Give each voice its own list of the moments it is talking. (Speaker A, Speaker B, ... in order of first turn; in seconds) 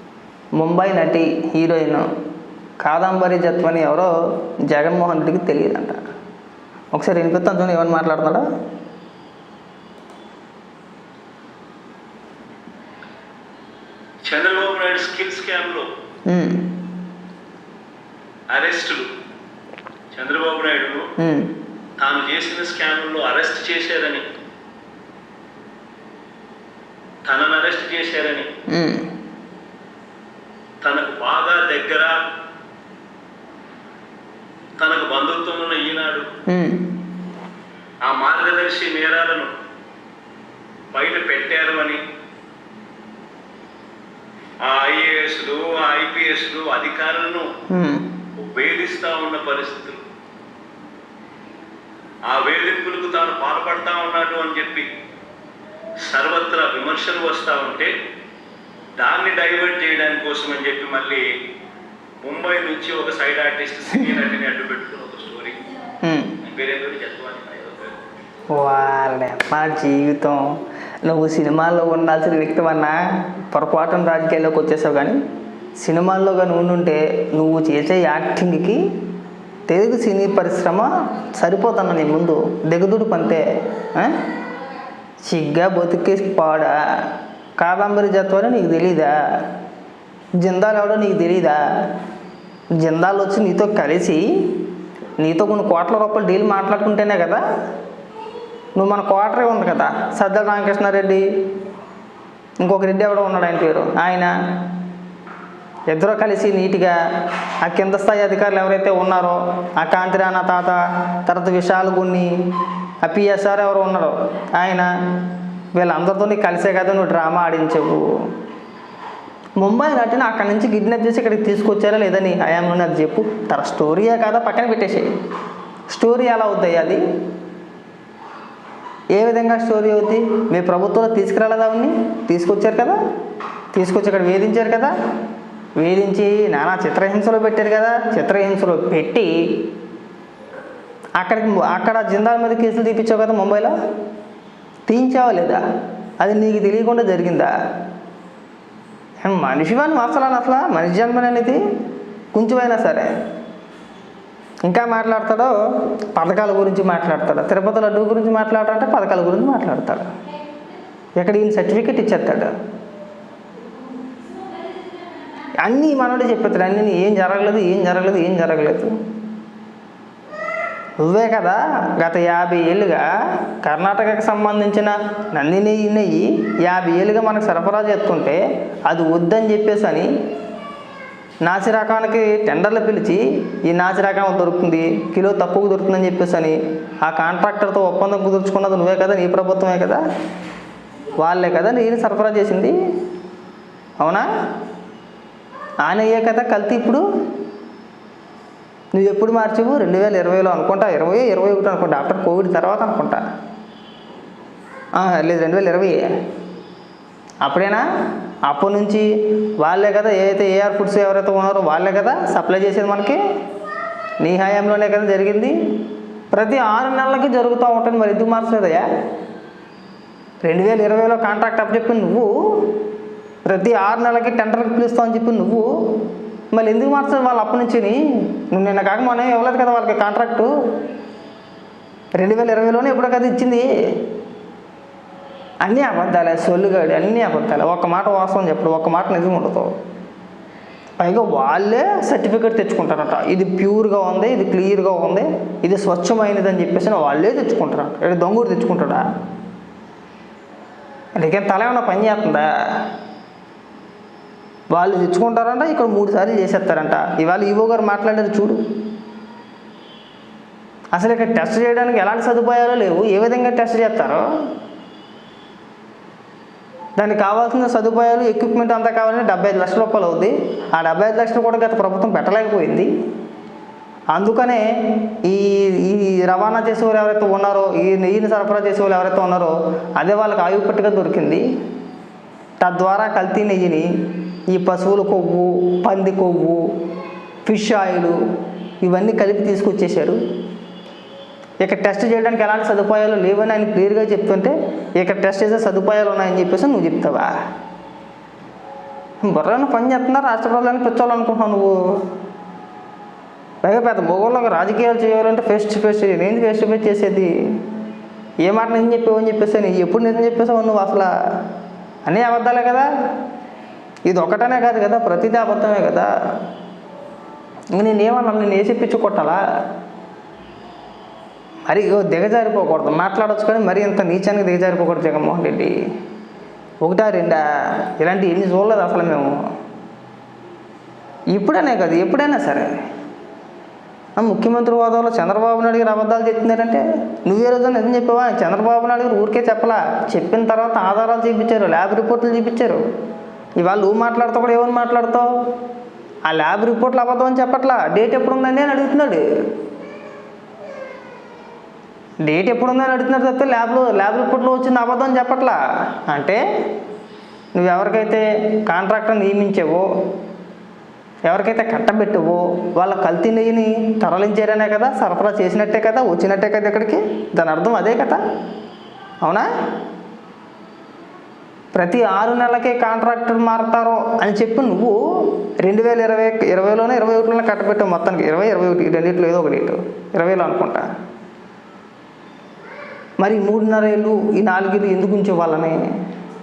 Speaker A: 0.6-2.1, 2.8-4.1, 4.7-6.0, 6.9-8.4, 16.3-16.8, 21.2-21.5, 28.7-29.1, 36.5-36.9, 47.7-48.1, 66.0-66.3, 68.5-75.2, 75.8-78.8, 79.7-84.2, 85.2-89.1, 90.4-91.6, 92.8-94.6, 95.2-97.4, 98.8-101.3, 102.6-104.3, 105.9-107.0, 107.6-112.3, 113.0-114.9, 115.8-118.1, 119.6-125.1, 125.9-127.0, 129.1-133.0, 133.7-134.9, 135.8-139.3, 141.2-143.7, 144.9-145.6, 146.2-147.5, 149.2-151.6, 152.3-153.1, 154.6-155.5, 156.1-160.1, 161.2-162.5, 165.6-168.9, 171.0-180.1, 181.4-190.0, 191.2-192.7, 194.0-194.3, 195.8-197.1, 198.9-203.2, 205.0-206.1, 207.4-207.8, 208.5-209.1, 209.6-213.2, 214.2-215.6, 216.3-218.8, 220.4-222.8, 223.4-225.7, 226.5-230.5, 232.2-233.7, 235.6-239.7, 241.0-249.1, 251.2-252.9, 254.7-258.6, 260.9-264.2, 267.0-272.9, 274.1-281.4, 282.6-283.9, 284.5-286.7, 287.5-288.2, 288.8-290.2, 291.6-297.4, 299.2-302.1, 303.6-307.3, 308.4-311.1, 312.1-312.9, 314.1-316.1, 317.7-319.4, 321.7-325.8, 326.8-329.4, 331.3-332.8, 334.2-342.8, 343.6-345.3, 346.3-349.2, 352.2-356.4, 357.6-359.9, 361.3-368.2, 369.2-369.5, 371.8-380.9, 383.2-385.8
Speaker B: 14.2-15.9, 18.5-19.1, 20.1-21.1, 22.0-24.2, 27.2-28.5, 30.8-32.1, 34.8-36.3, 38.0-39.5, 40.9-42.0, 44.6-47.5, 48.4-50.0, 52.3-54.9, 56.0-57.9, 59.0-61.2, 62.2-65.7, 66.4-68.0